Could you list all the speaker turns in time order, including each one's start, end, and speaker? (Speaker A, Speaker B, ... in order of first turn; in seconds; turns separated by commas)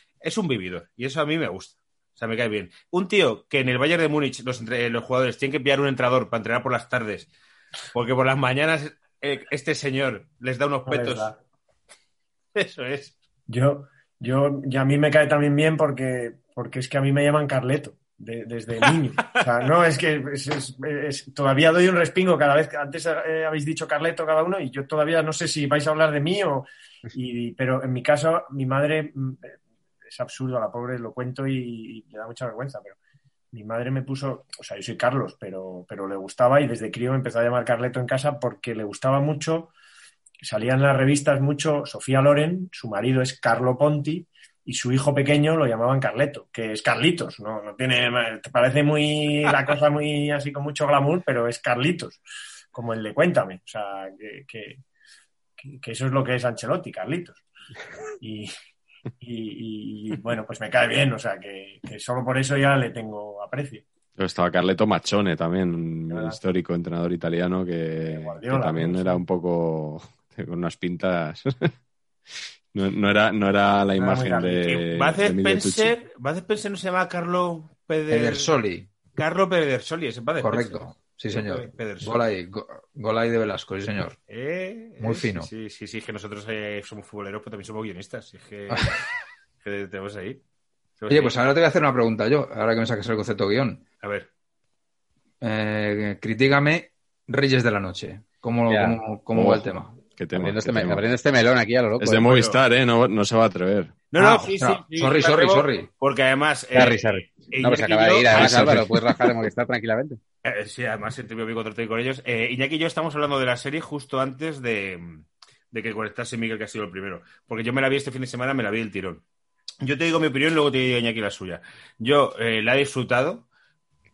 Speaker A: 0.2-7.3, Speaker A: 7.9-11.3, Speaker B: 10.9-11.3, Speaker A: 12.5-13.1, Speaker B: 13.5-33.0, Speaker B: 33.5-39.7, Speaker B: 40.4-54.8, Speaker B: 55.6-57.4, Speaker B: 58.2-58.5, Speaker B: 59.2-63.8, Speaker C: 64.2-71.7, Speaker B: 66.1-66.4, Speaker B: 68.0-69.2, Speaker C: 72.7-75.9, Speaker B: 74.0-74.7, Speaker A: 74.7-78.5, Speaker D: 78.1-78.9, Speaker A: 79.2-82.2, Speaker D: 80.4-84.2, Speaker A: 84.3-89.0, Speaker D: 85.0-85.5, Speaker D: 88.7-89.0, Speaker A: 89.6-90.4, Speaker A: 91.0-91.3, Speaker D: 91.1-93.8, Speaker A: 94.0-94.3, Speaker D: 95.4-99.9, Speaker E: 98.7-99.0, Speaker C: 99.3-101.0, Speaker E: 100.3-102.5, Speaker C: 102.0-104.0, Speaker A: 104.1-109.3, Speaker D: 104.2-105.9, Speaker E: 106.7-110.2, Speaker A: 110.4-119.2, Speaker A: 119.8-123.5